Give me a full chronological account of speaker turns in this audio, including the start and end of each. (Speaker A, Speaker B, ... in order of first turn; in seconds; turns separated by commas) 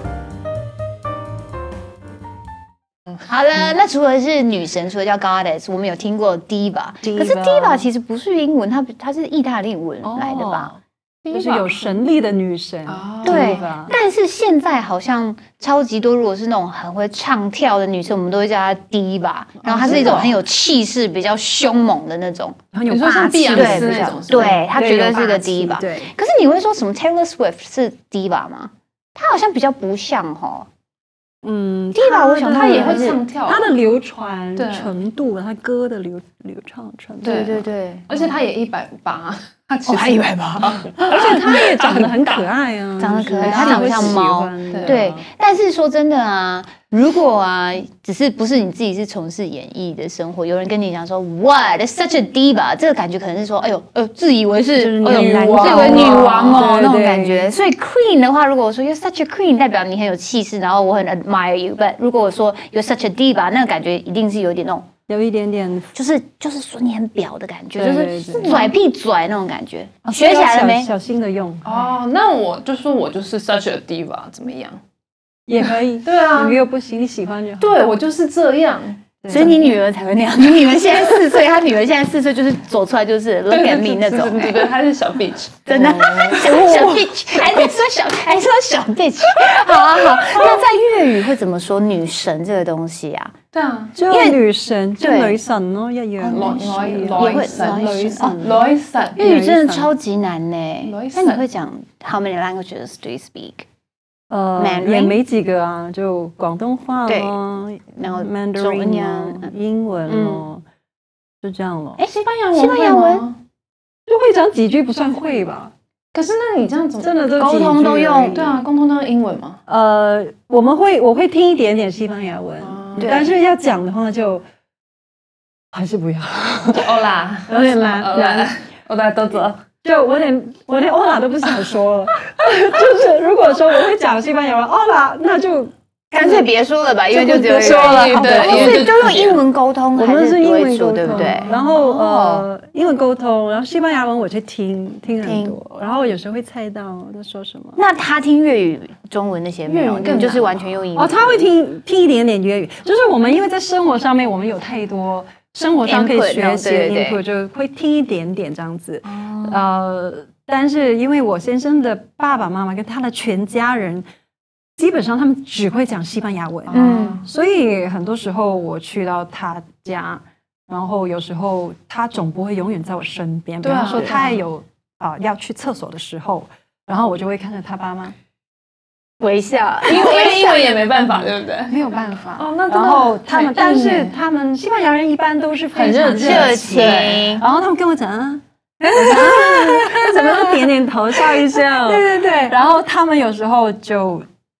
Speaker A: 3.3-10.7, Speaker B: 7.0-7.9, Speaker B: 10.0-10.8, Speaker C: 11.2-11.9, Speaker B: 11.3-13.9, Speaker C: 12.9-13.8, Speaker A: 13.2-22.6, Speaker C: 19.6-20.3, Speaker B: 19.7-20.3, Speaker B: 22.7-26.1, Speaker C: 22.9-24.6, Speaker A: 23.5-30.7, Speaker B: 31.4-37.5, Speaker A: 31.9-33.2, Speaker C: 32.5-33.7, Speaker C: 34.6-34.9, Speaker C: 37.2-42.4, Speaker A: 37.2-38.1, Speaker A: 39.9-41.5, Speaker B: 41.0-45.2, Speaker A: 43.0-64.9, Speaker C: 43.4-44.1, Speaker C: 44.7-45.0, Speaker B: 54.8-57.5, Speaker C: 55.0-56.8, Speaker B: 65.1-65.9, Speaker A: 65.9-70.9, Speaker B: 67.8-68.7, Speaker C: 68.3-68.7, Speaker B: 70.0-71.8, Speaker C: 71.6-74.8, Speaker B: 75.5-77.7, Speaker C: 76.0-76.6, Speaker C: 77.6-79.5, Speaker B: 79.2-79.5, Speaker A: 79.3-84.7, Speaker C: 83.5-85.9, Speaker A: 85.7-93.3, Speaker B: 85.7-87.4, Speaker C: 93.5-93.9, Speaker B: 94.0-99.9, Speaker A: 94.1-94.4, Speaker A: 95.0-95.4, Speaker A: 96.2-98.4, Speaker C: 96.3-99.2, Speaker A: 99.2-103.7, Speaker C: 100.8-101.4, Speaker B: 104.3-110.6, Speaker A: 104.6-105.2, Speaker A: 107.1-107.4, Speaker A: 107.9-109.5, Speaker A: 110.1-110.4, Speaker B: 111.4-112.0, Speaker C: 112.0-113.4, Speaker A: 112.5-113.3, Speaker B: 114.1-115.7, Speaker C: 116.1-117.2, Speaker B: 117.0-118.6, Speaker A: 117.4-118.5, Speaker C: 118.3-119.6, Speaker B: 119.7-124.4, Speaker C: 122.6-123.3, Speaker B: 125.7-126.9, Speaker C: 126.7-129.6, Speaker B: 127.5-128.5, Speaker B: 129.8-136.5, Speaker A: 136.1-142.5, Speaker B: 137.1-138.9, Speaker C: 137.5-139.4, Speaker B: 139.9-147.8, Speaker A: 145.2-145.6, Speaker A: 147.8-151.4, Speaker C: 149.7-150.9, Speaker B: 150.9-164.1, Speaker A: 155.9-157.2, Speaker A: 159.1-159.6, Speaker B: 164.8-178.2, Speaker C: 166.7-167.2, Speaker A: 166.7-167.3, Speaker C: 173.6-174.4, Speaker A: 179.2-181.1, Speaker C: 179.8-181.8, Speaker B: 181.7-194.2, Speaker C: 182.4-184.2, Speaker C: 185.7-187.3, Speaker A: 186.2-187.4, Speaker A: 188.8-190.4, Speaker C: 191.5-192.1